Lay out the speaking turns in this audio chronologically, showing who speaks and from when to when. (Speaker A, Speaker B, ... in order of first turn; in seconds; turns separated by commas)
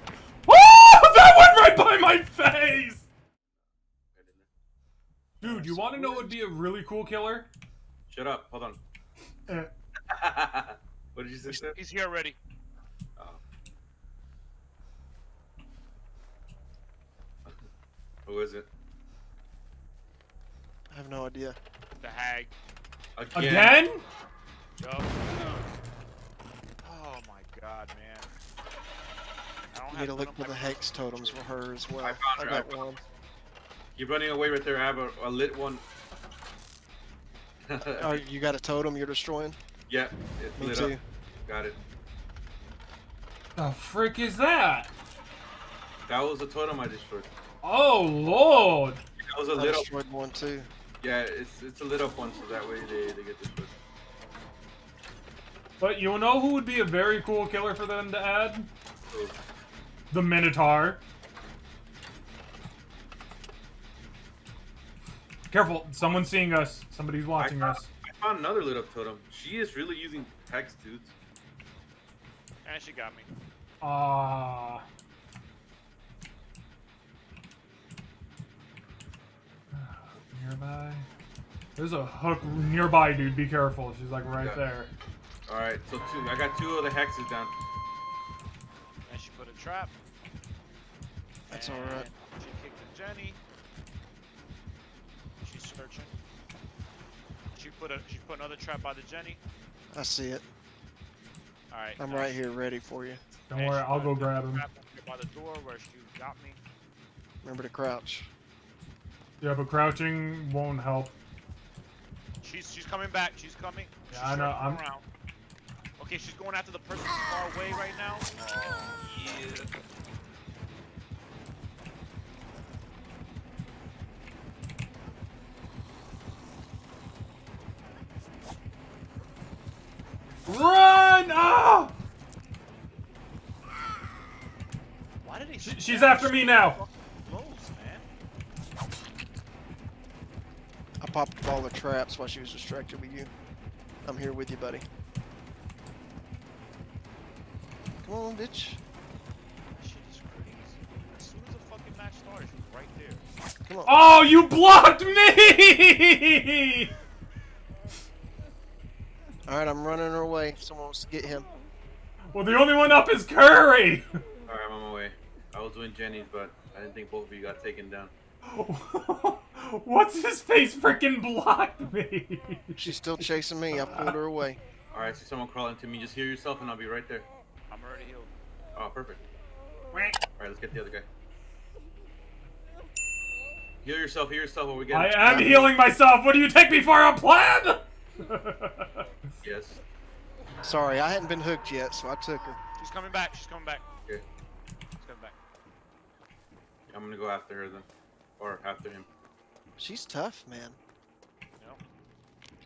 Speaker A: 0.5-3.1, Speaker B: 4.1-4.5, Speaker C: 5.4-6.4, Speaker A: 5.4-7.5, Speaker B: 8.1-8.8, Speaker B: 10.1-11.8, Speaker D: 11.7-12.4, Speaker B: 18.3-18.7, Speaker C: 20.9-21.6, Speaker D: 22.0-22.6, Speaker B: 23.2-23.8, Speaker A: 23.4-24.0, Speaker D: 24.8-25.3, Speaker D: 26.8-28.3, Speaker D: 29.7-31.5, Speaker C: 29.9-33.0, Speaker B: 32.0-32.9, Speaker B: 34.0-35.8, Speaker B: 37.7-38.2, Speaker C: 38.0-39.6, Speaker B: 39.9-41.8, Speaker C: 40.6-41.0, Speaker A: 43.6-44.9, Speaker B: 46.1-47.3, Speaker A: 47.6-49.0, Speaker B: 49.2-49.9, Speaker C: 49.5-50.7, Speaker B: 51.0-53.7, Speaker A: 55.8-58.7, Speaker A: 60.1-61.0, Speaker A: 65.5-67.9, Speaker B: 67.4-71.1, Speaker D: 72.6-73.3, Speaker A: 73.8-74.8, Speaker A: 79.7-81.1, Speaker A: 81.8-84.9, Speaker B: 85.5-87.5, Speaker D: 89.1-89.9, Speaker D: 91.5-93.4, Speaker C: 91.5-92.1, Speaker D: 95.4-96.1, Speaker D: 97.5-99.4, Speaker C: 99.9-100.5, Speaker D: 101.7-102.6, Speaker C: 102.0-103.2, Speaker A: 103.5-104.6, Speaker D: 103.5-106.6, Speaker C: 107.4-108.3, Speaker A: 109.4-111.1, Speaker D: 112.4-115.1, Speaker A: 114.1-114.8, Speaker D: 116.0-119.6, Speaker A: 130.5-131.9, Speaker D: 135.2-138.1, Speaker A: 135.6-136.8, Speaker C: 141.0-143.3, Speaker C: 144.1-144.8, Speaker C: 148.0-148.8, Speaker D: 149.7-153.3, Speaker C: 153.7-153.9, Speaker A: 153.9-156.9, Speaker C: 159.5-161.5, Speaker A: 162.3-164.2, Speaker B: 164.5-168.1, Speaker A: 168.4-174.2, Speaker C: 172.8-174.6, Speaker B: 174.9-177.3, Speaker D: 177.7-178.3, Speaker B: 178.8-179.2, Speaker A: 179.9-180.2, Speaker B: 180.4-181.1, Speaker B: 183.8-185.6, Speaker A: 184.9-189.1, Speaker C: 185.2-185.7, Speaker B: 189.4-189.8, Speaker C: 190.6-192.6, Speaker D: 192.8-193.8, Speaker D: 195.0-195.4, Speaker B: 196.9-197.9, Speaker B: 198.4-199.1, Speaker C: 199.8-200.8